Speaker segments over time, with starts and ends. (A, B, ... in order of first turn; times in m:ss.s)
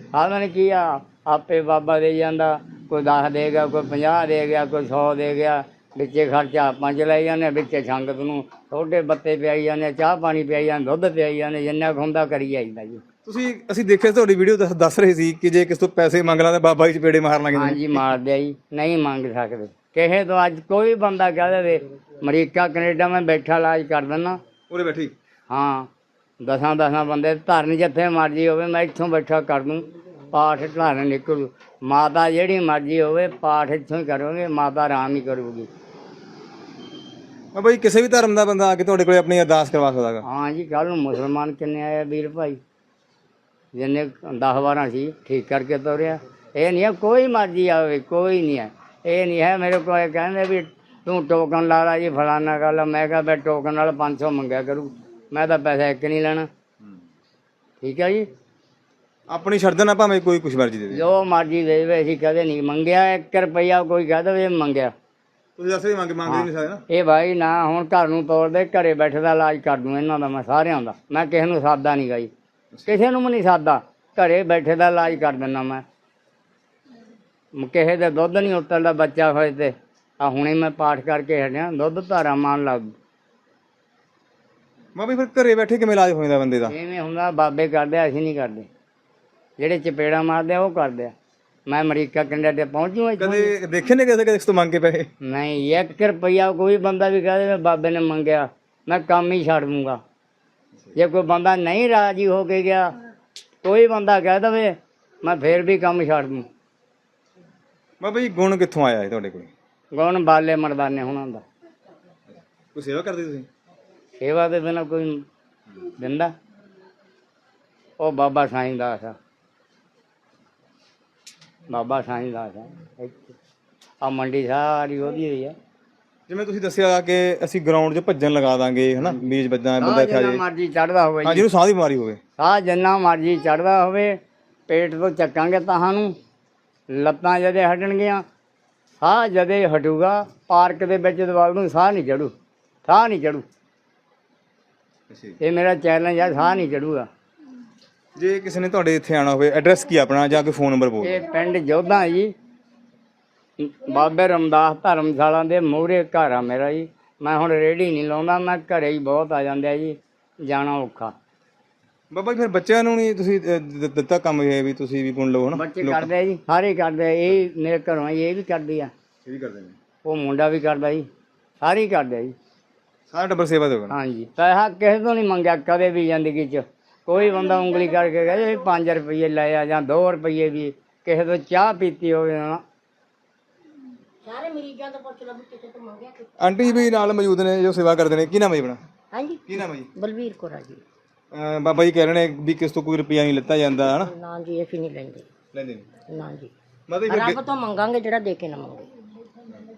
0:00.1-0:13.0 A
0:13.2-0:18.0 B
0:17.6-0:24.4 A
0:24.7-0:25.1 B
0:25.5-0:25.9 A
0:26.4-0:35.7 A
0:37.5-0:40.2 B
0:40.2-0:42.6 A
0:43.7-0:56.5 A
0:57.8-0:58.2 A
0:59.3-1:01.0 B
1:00.9-1:04.9 A
1:05.6-1:06.8 B
1:06.2-1:12.3 A
1:12.9-1:15.8 A
1:17.6-1:22.9 A
1:25.0-1:26.7 B
1:26.7-1:28.7 A
1:29.6-1:31.1 A
1:31.7-1:33.5 A
1:33.2-1:35.1 B
1:35.2-1:40.0 A
1:41.0-1:42.9 A
1:43.6-1:46.5 A
1:48.0-1:49.5 B
1:49.9-1:51.4 A
1:52.7-1:53.5 B
1:54.2-1:55.2 A
1:56.0-1:56.3 A
1:58.0-1:59.2 A
2:01.7-2:03.4 A
2:04.0-2:05.6 A
2:06.3-2:10.4 B
2:09.8-2:11.5 A
2:11.2-2:12.2 B
2:12.4-2:16.1 A
2:16.9-2:18.2 A
2:19.0-2:22.3 A
2:22.8-2:23.4 A
2:25.1-2:25.4 B
2:25.4-2:27.1 A
2:28.2-2:31.2 B
2:31.0-2:32.3 A
2:33.6-2:41.1 A
2:42.1-2:46.1 B
2:45.6-2:48.9 A
2:49.2-2:49.8 B
2:50.0-2:51.1 A
2:51.6-2:52.3 A
2:53.1-2:54.0 B
2:53.9-3:02.6 A
2:57.4-2:57.9 C
3:04.2-3:06.3 C
3:06.4-3:08.8 B
3:09.1-3:10.8 C
3:09.5-3:09.9 B
3:11.3-3:14.1 B
3:13.8-3:15.2 C
3:15.5-3:15.8 B
3:16.1-3:16.5 C
3:16.9-3:17.4 B
3:17.1-3:18.9 C